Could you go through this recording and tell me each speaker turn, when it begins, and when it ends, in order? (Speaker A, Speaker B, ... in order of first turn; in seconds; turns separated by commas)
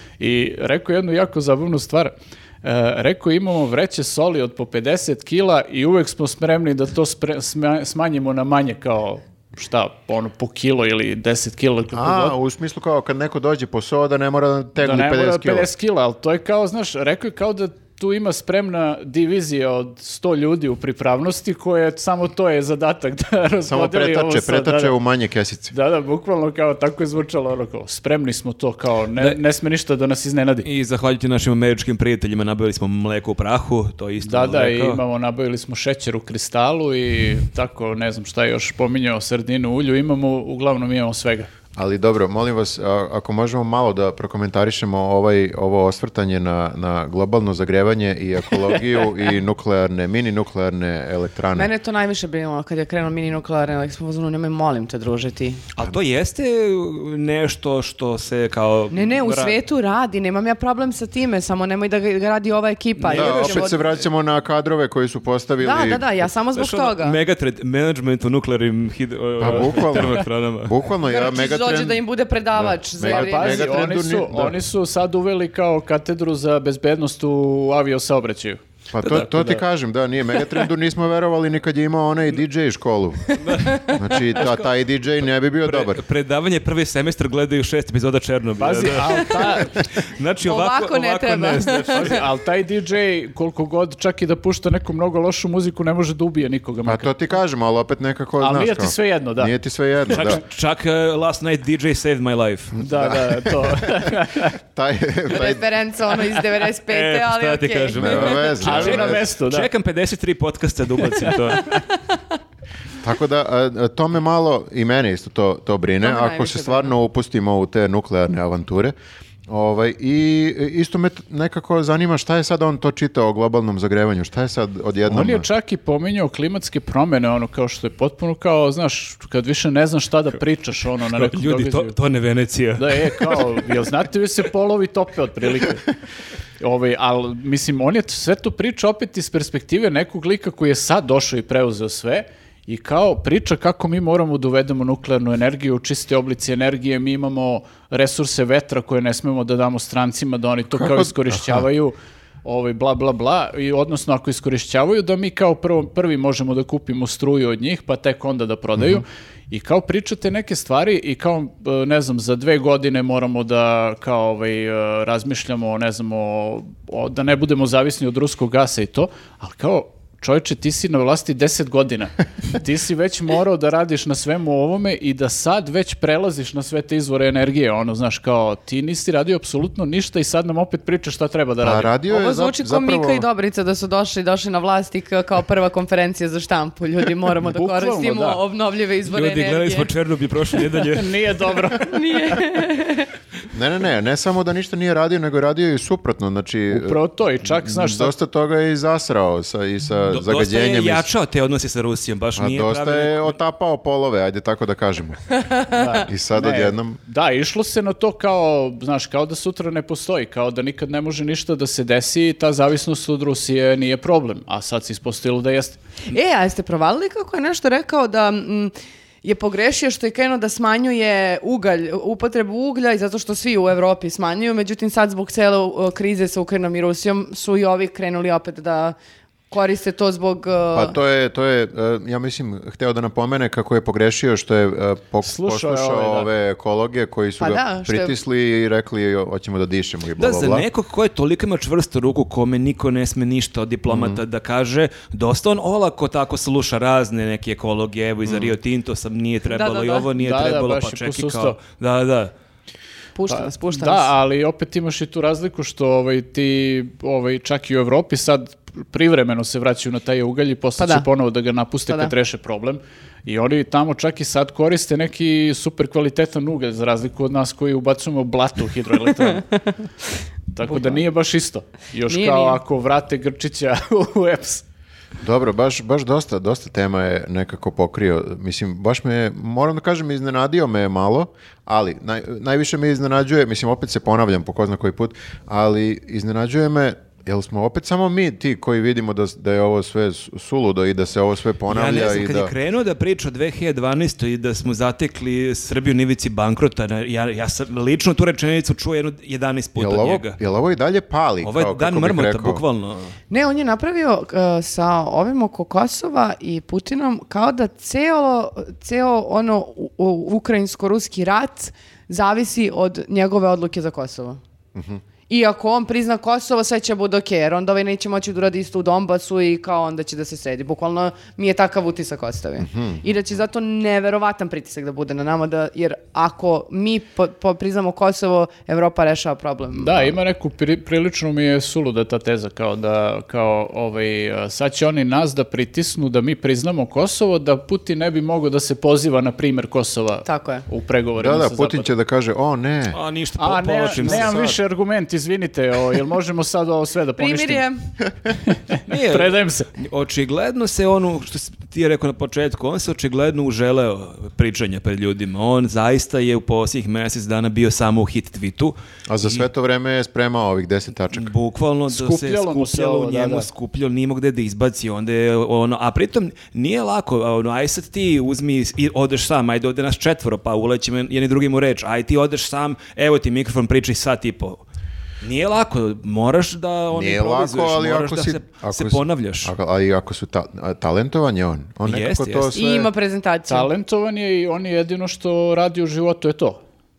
Speaker A: 0.2-12.3, Speaker B: 11.9-15.7, Speaker A: 14.8-24.9, Speaker B: 23.6-25.7, Speaker A: 25.7-30.6, Speaker C: 30.6-35.0, Speaker A: 34.2-41.5, Speaker B: 41.8-51.7, Speaker D: 51.5-55.6, Speaker C: 55.7-59.6, Speaker D: 58.9-63.8, Speaker C: 63.0-63.9, Speaker B: 63.1-66.0, Speaker D: 65.6-67.2, Speaker C: 66.5-70.8, Speaker B: 69.4-72.0, Speaker D: 71.0-73.8, Speaker B: 72.6-74.6, Speaker A: 73.0-79.6, Speaker B: 78.9-83.3, Speaker C: 83.4-84.7, Speaker D: 83.5-84.0, Speaker B: 83.9-86.0, Speaker C: 85.6-92.2, Speaker A: 88.6-89.8, Speaker D: 90.4-92.2, Speaker A: 91.9-97.1, Speaker B: 96.8-100.4, Speaker A: 98.4-99.5, Speaker C: 100.1-102.8, Speaker A: 102.8-104.5, Speaker B: 102.8-105.6, Speaker D: 105.3-108.5, Speaker C: 106.9-111.8, Speaker B: 107.9-109.2, Speaker A: 108.6-109.7, Speaker B: 113.0-118.9, Speaker D: 116.0-116.9, Speaker B: 119.5-125.5, Speaker A: 125.1-131.9, Speaker C: 131.1-133.5, Speaker A: 132.8-135.9, Speaker A: 136.6-181.9, Speaker B: 150.7-151.7, Speaker B: 158.8-159.0, Speaker B: 181.6-183.2, Speaker D: 182.1-189.9, Speaker A: 187.4-188.4, Speaker C: 189.1-191.1, Speaker A: 190.9-192.4, Speaker D: 191.8-193.1, Speaker B: 193.5-201.1, Speaker A: 196.7-198.1, Speaker C: 200.1-203.3, Speaker B: 202.3-205.5, Speaker A: 205.7-215.8, Speaker B: 206.0-207.0, Speaker D: 216.1-229.0, Speaker D: 229.5-230.9, Speaker B: 230.7-240.6, Speaker A: 235.2-236.3, Speaker D: 237.4-238.2, Speaker C: 240.2-252.3, Speaker B: 243.9-244.2, Speaker B: 248.2-248.5, Speaker D: 249.4-250.1, Speaker A: 250.2-251.6, Speaker D: 253.2-254.1, Speaker A: 253.3-269.6, Speaker D: 260.8-261.1, Speaker A: 270.5-274.6, Speaker D: 270.7-271.0, Speaker D: 272.1-272.6, Speaker B: 275.2-292.5, Speaker C: 291.7-300.4, Speaker B: 299.8-302.6, Speaker C: 301.4-303.1, Speaker D: 303.3-314.4, Speaker B: 314.7-315.0, Speaker D: 315.3-330.1, Speaker B: 322.7-323.0, Speaker A: 329.8-341.9, Speaker D: 340.2-340.6, Speaker B: 341.2-343.0, Speaker C: 342.9-344.6, Speaker A: 343.4-347.6, Speaker B: 344.0-344.6, Speaker D: 347.2-347.8, Speaker A: 348.5-349.7, Speaker C: 348.9-359.4, Speaker B: 359.1-361.3, Speaker C: 361.1-374.6, Speaker A: 361.9-363.5, Speaker C: 375.2-379.5, Speaker B: 376.9-382.9, Speaker C: 381.8-382.5, Speaker D: 382.5-383.7, Speaker A: 383.5-386.6